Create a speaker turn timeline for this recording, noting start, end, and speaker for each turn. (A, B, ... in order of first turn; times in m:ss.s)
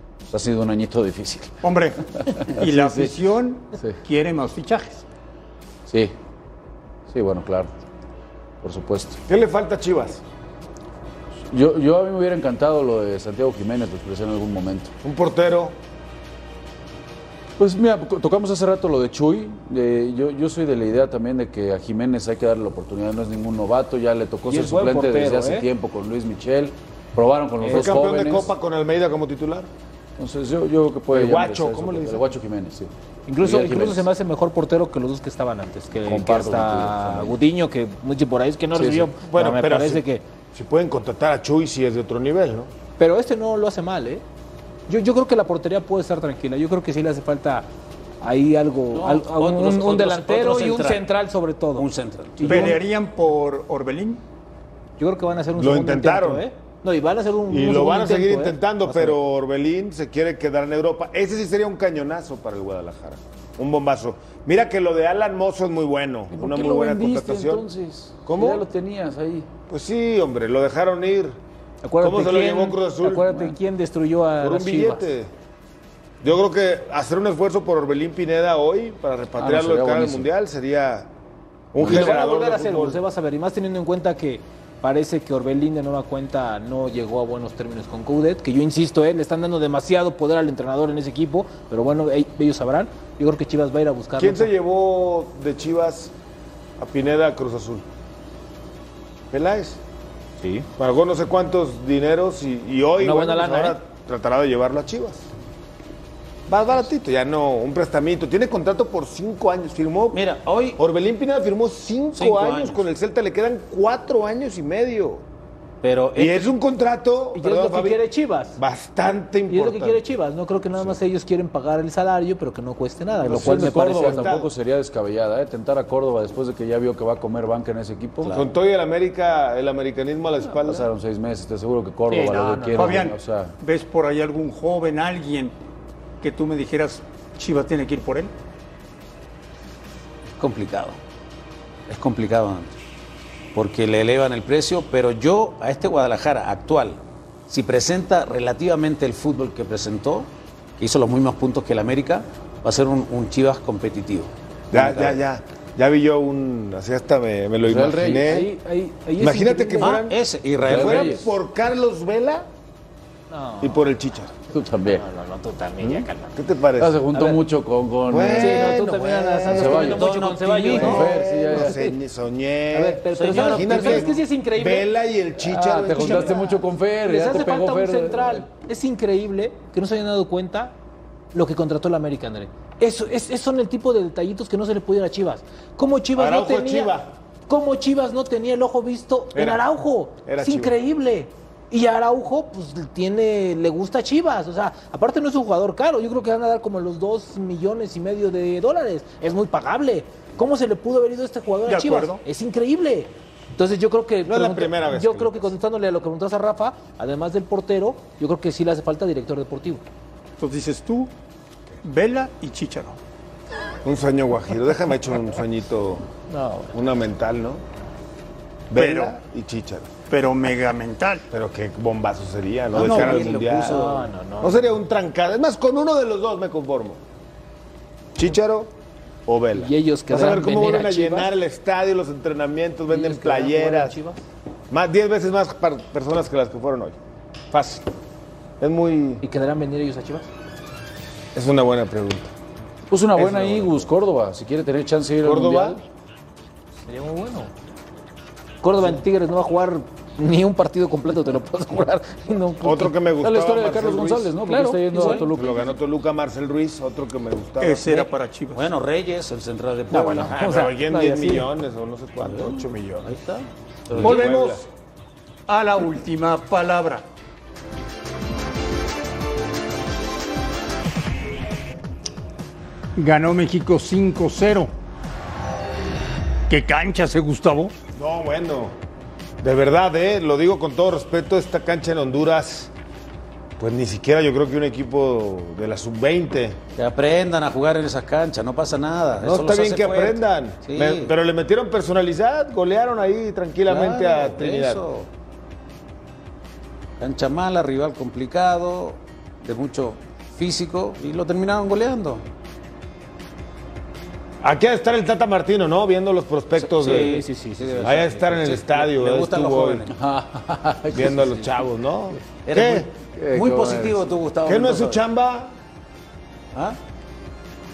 0:00.3-0:03.1 A
0:01.6-0:05.0 B
0:05.9-0:06.1 A
0:07.1-0:07.7 A
0:08.6-0:09.2 A
0:09.3-0:10.2 C
0:11.5-0:14.9 A
0:15.0-0:15.8 C
0:17.6-0:28.5 A
0:24.4-0:25.7 D
0:27.6-0:29.7 C
0:30.2-0:32.9 A
0:31.1-0:32.2 C
0:33.3-0:40.2 D
0:33.4-0:34.1 A
0:36.0-0:37.3 A
0:38.7-0:39.1 A
0:39.2-0:42.7 C
0:43.0-0:44.2 D
0:44.9-0:47.7 D
0:48.2-0:51.8 D
0:48.9-0:51.1 E
0:51.7-0:52.8 E
0:52.4-0:52.8 D
0:52.4-0:54.2 B
0:55.0-0:59.2 D
0:55.6-0:56.4 C
0:57.5-1:07.6 C
1:06.3-1:09.5 A
1:08.2-1:08.6 C
1:09.7-1:11.4 C
1:11.8-1:15.0 D
1:12.0-1:13.3 C
1:14.4-1:15.3 C
1:16.2-1:21.1 C
1:19.4-1:20.3 A
1:21.7-1:23.0 C
1:21.8-1:34.5 D
1:34.2-1:36.1 C
1:36.8-1:37.8 C
1:39.3-1:39.8 C
1:40.4-1:40.7 D
1:40.8-1:45.3 C
1:43.0-1:43.8 D
1:46.5-1:50.2 C
1:50.1-1:50.8 E
1:50.8-1:55.2 C
1:52.1-1:52.8 E
1:55.8-1:56.5 E
1:56.2-1:58.0 C
1:57.3-1:58.6 D
1:58.6-2:00.1 C
1:59.5-2:04.3 D
2:03.2-2:08.4 A
2:03.3-2:04.5 C
2:08.2-2:08.5 E
2:08.3-2:10.8 C
2:10.6-2:13.5 A
2:12.1-2:13.1 D
2:12.8-2:15.5 B
2:16.2-2:18.3 B
2:20.3-2:21.0 E
2:21.9-2:22.7 E
2:23.5-2:35.2 E
2:34.7-2:38.5 C
2:37.6-2:38.4 A
2:38.2-2:40.0 D
2:39.2-2:42.5 C
2:39.8-2:41.2 E
2:40.6-2:41.2 A
2:43.3-2:43.9 D
2:43.6-2:44.3 C
2:44.5-2:45.0 A
2:44.9-2:46.3 D
2:46.3-2:47.4 C
2:46.8-2:48.8 A
2:48.1-2:50.0 C
2:48.3-2:51.9 D
2:49.5-2:51.8 A
2:49.7-2:51.1 E
2:50.7-2:56.4 C
2:52.7-2:54.9 D
2:53.1-2:54.2 E
2:55.4-2:58.5 A
2:55.9-3:00.7 D
3:01.3-3:29.8 D
3:06.1-3:07.1 C
3:09.3-3:09.6 C
3:10.2-3:10.8 C
3:21.7-3:22.2 B
3:24.2-3:25.5 C
3:30.4-3:31.1 B
3:31.8-3:33.0 B
3:33.8-3:36.0 C
3:36.3-3:36.7 D
3:36.7-3:37.6 C
3:38.7-3:39.9 C
3:38.7-3:39.1 B
3:40.1-3:41.2 B
3:41.3-3:43.8 C
3:42.7-3:44.1 E
3:43.6-3:44.6 D
3:44.4-3:47.0 C
3:48.2-3:48.7 C
3:49.2-3:54.0 C
3:49.5-3:51.3 D
3:52.9-3:54.2 D
3:54.7-3:57.0 C
3:57.5-3:57.8 C
3:58.6-3:59.2 C
3:59.2-4:00.3 D
4:01.3-4:02.3 C
4:02.9-4:05.8 A
4:03.2-4:03.9 C
4:05.2-4:05.8 C
4:06.9-4:07.5 D
4:08.6-4:13.0 D
4:12.6-4:14.3 C
4:13.2-4:15.6 A
4:14.5-4:15.3 D
4:15.2-4:17.9 C
4:17.6-4:18.6 B
4:18.5-4:20.6 E
4:19.9-4:21.5 D
4:20.3-4:23.1 C
4:22.2-4:24.3 E
4:23.9-4:24.6 C
4:24.0-4:24.7 B
4:25.5-4:27.0 B
4:33.0-4:34.7 B
4:36.5-4:37.7 B
4:37.9-4:38.8 C
4:39.4-4:42.7 C
4:43.6-4:46.6 C
4:46.8-4:51.1 E
4:49.2-4:54.8 C
4:53.6-4:55.1 E
4:57.0-5:02.2 E
5:04.4-5:07.2 C
5:06.6-5:09.9 E
5:06.8-5:08.2 D
5:07.8-5:09.8 C
5:09.9-5:11.4 A
5:10.9-5:12.9 C
5:12.4-5:15.0 E
5:13.2-5:14.0 A
5:14.4-5:15.5 C